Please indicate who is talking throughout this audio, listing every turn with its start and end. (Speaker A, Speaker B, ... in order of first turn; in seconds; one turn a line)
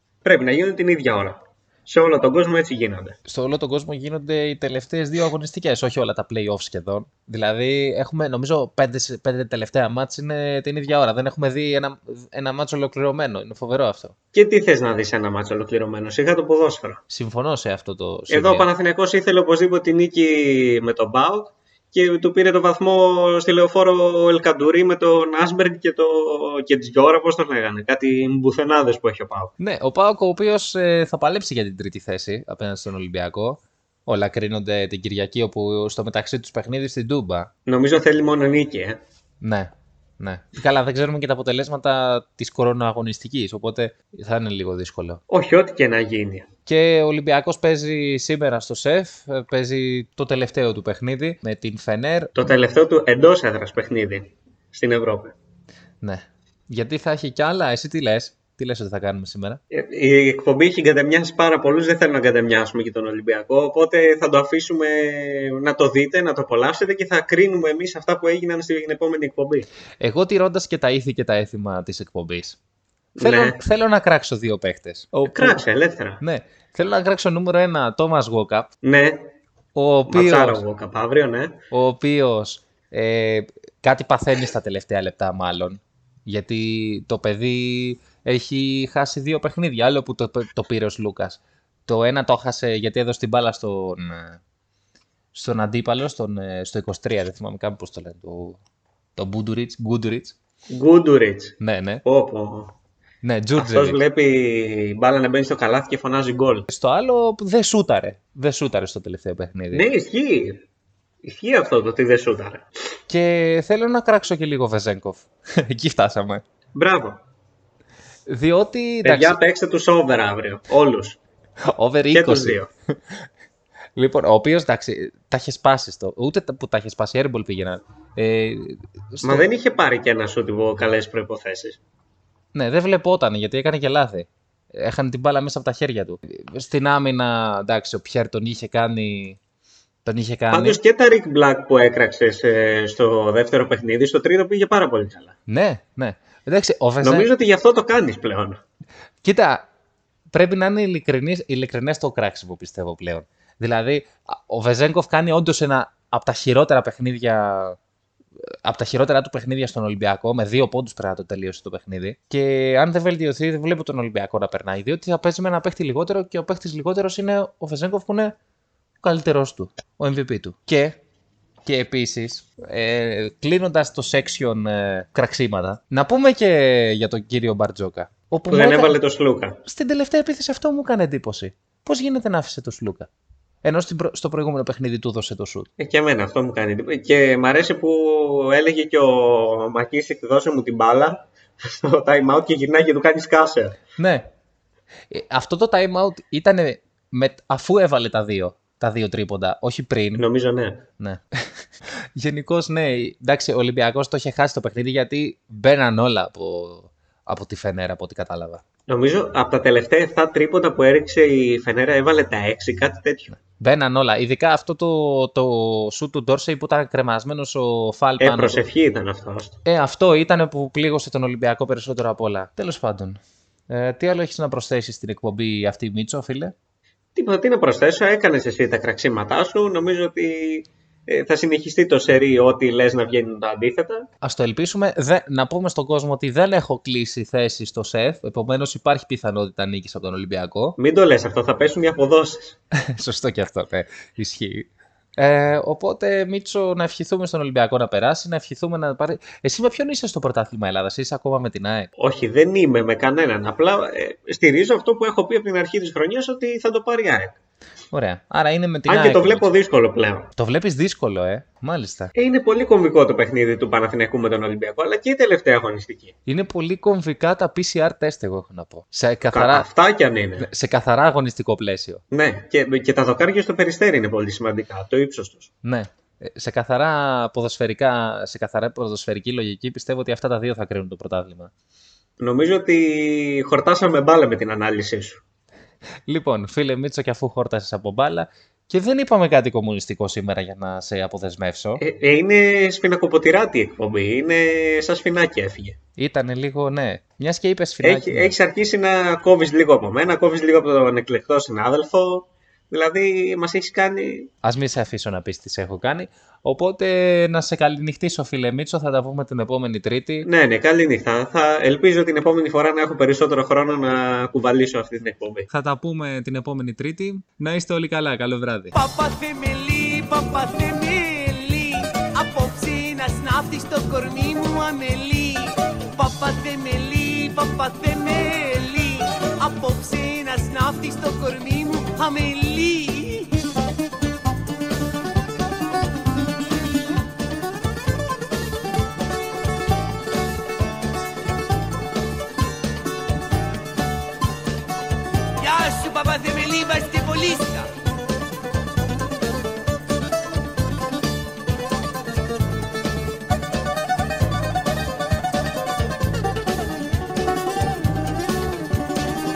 Speaker A: 0.2-3.1
Speaker B: 3.3-14.1
Speaker A: 14.3-17.0
Speaker B: 17.1-18.7
Speaker A: 18.3-29.5
Speaker B: 29.6-37.5
Speaker A: 37.7-39.0
Speaker B: 39.4-45.2
Speaker A: 45.3-46.5
Speaker B: 46.7-52.3
Speaker A: 52.4-55.3
Speaker B: 56.0-59.6
Speaker A: 59.7-69.7
Speaker B: 70.0-72.6
Speaker A: 73.2-73.6
Speaker B: 73.2-75.6
Speaker A: 75.3-76.2
Speaker B: 76.2-78.7
Speaker A: 78.8-79.3
Speaker B: 79.8-80.6
Speaker A: 80.1-81.5
Speaker B: 81.7-94.4
Speaker B: 95.3-98.6
Speaker B: 99.2-100.3
Speaker A: 100.7-102.7
Speaker B: 101.6-102.0
Speaker B: 103.2-104.0
Speaker A: 103.5-106.7
Speaker B: 106.7-109.9
Speaker A: 109.7-110.6
Speaker A: 111.2-112.7
Speaker B: 113.1-116.4
Speaker A: 116.7-117.2
Speaker B: 118.3-119.4
Speaker A: 119.0-121.2
Speaker B: 121.7-122.6
Speaker A: 122.1-122.7
Speaker B: 124.0-129.4
Speaker A: 129.2-131.8
Speaker B: 132.5-139.4
Speaker B: 140.0-140.8
Speaker A: 140.5-145.3
Speaker B: 145.5-147.3
Speaker A: 147.0-148.6
Speaker B: 149.2-149.7
Speaker B: 150.3-157.8
Speaker B: 158.6-168.3
Speaker B: 169.0-171.0
Speaker B: 171.7-178.9
Speaker A: 178.5-179.6
Speaker B: 179.6-183.1
Speaker B: 183.6-185.7
Speaker A: 185.8-193.8
Speaker B: 194.0-194.2
Speaker B: 195.1-200.2
Speaker A: 200.2-200.8
Speaker B: 201.0-201.3
Speaker B: 202.2-208.6
Speaker A: 208.9-213.3
Speaker B: 213.4-218.6
Speaker A: 218.2-219.6
Speaker B: 219.6-226.5
Speaker A: 227.1-234.1
Speaker B: 234.2-240.7
Speaker A: 240.8-242.6
Speaker B: 242.9-244.7
Speaker B: 245.2-251.9
Speaker A: 252.0-257.3
Speaker B: 257.9-259.5
Speaker A: 258.9-260.3
Speaker B: 260.3-262.1
Speaker A: 262.1-266.1
Speaker B: 266.2-269.7
Speaker A: 269.3-270.5
Speaker B: 270.4-272.0
Speaker A: 272.1-275.5
Speaker B: 275.6-281.5
Speaker A: 282.2-285.2
Speaker B: 286.1-291.8
Speaker A: 291.8-295.8
Speaker B: 296.0-298.3
Speaker A: 297.8-304.3
Speaker B: 304.4-310.2
Speaker A: 310.2-315.5
Speaker B: 315.5-318.7
Speaker C: 318.7-333.3
Speaker C: 345.4-347.7